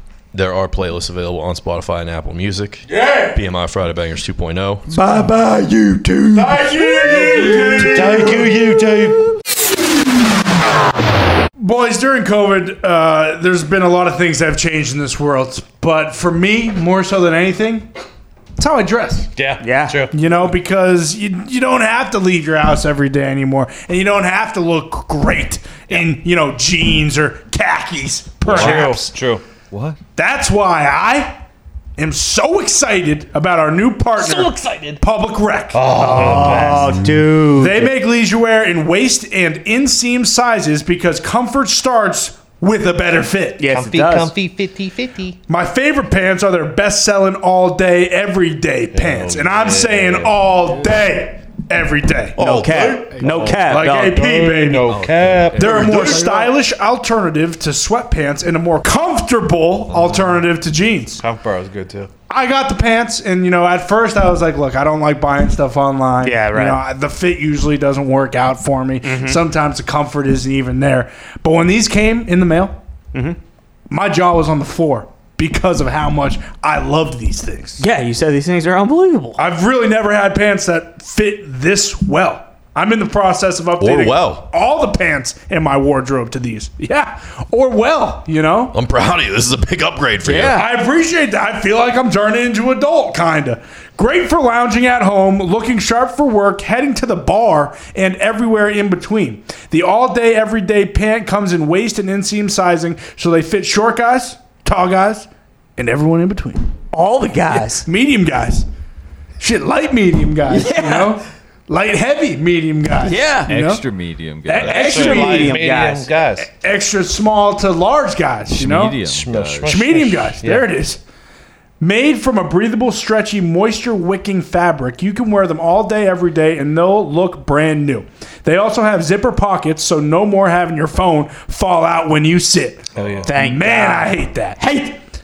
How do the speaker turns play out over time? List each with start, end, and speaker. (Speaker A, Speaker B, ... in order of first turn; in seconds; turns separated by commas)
Speaker A: 0.3-4.9, Speaker B: 2.9-3.4, Speaker B: 6.3-8.7, Speaker C: 7.1-8.1, Speaker D: 7.8-9.3, Speaker B: 11.6-17.9, Speaker B: 18.6-19.3, Speaker D: 19.4-20.2, Speaker E: 19.6-20.0, Speaker B: 20.1-29.1, Speaker C: 28.4-29.0, Speaker D: 28.5-29.4, Speaker C: 29.7-30.0, Speaker B: 30.2-31.4, Speaker B: 32.0-36.5, Speaker D: 34.2-35.0, Speaker D: 35.7-37.0, Speaker E: 35.9-37.9, Speaker B: 37.5-43.6, Speaker E: 43.6-44.3, Speaker D: 43.7-45.4, Speaker B: 45.5-61.2, Speaker C: 49.0-50.3, Speaker D: 49.1-50.3, Speaker E: 52.4-54.8, Speaker C: 53.2-53.7, Speaker C: 54.9-56.2, Speaker D: 54.9-56.4, Speaker C: 59.9-60.3, Speaker D: 61.2-62.1, Speaker B: 62.3-72.8, Speaker E: 66.2-66.8, Speaker E: 69.0-69.4, Speaker B: 73.9-77.8, Speaker E: 77.8-79.4, Speaker B: 79.4-88.8, Speaker A: 83.8-84.5, Speaker A: 88.7-90.6, Speaker E: 90.2-90.7, Speaker B: 90.5-106.7, Speaker E: 106.9-107.9, Speaker B: 107.5-108.7, Speaker B: 109.4-113.9, Speaker E: 110.5-111.2, Speaker E: 113.0-113.5, Speaker C: 113.5-115.1, Speaker B: 114.5-115.6, Speaker D: 114.6-116.5, Speaker E: 114.8-116.1, Speaker B: 116.4-119.0, Speaker C: 118.5-119.8, Speaker D: 119.0-120.7, Speaker B: 119.6-121.0, Speaker B: 121.8-134.7, Speaker D: 132.9-133.3, Speaker E: 133.3-135.0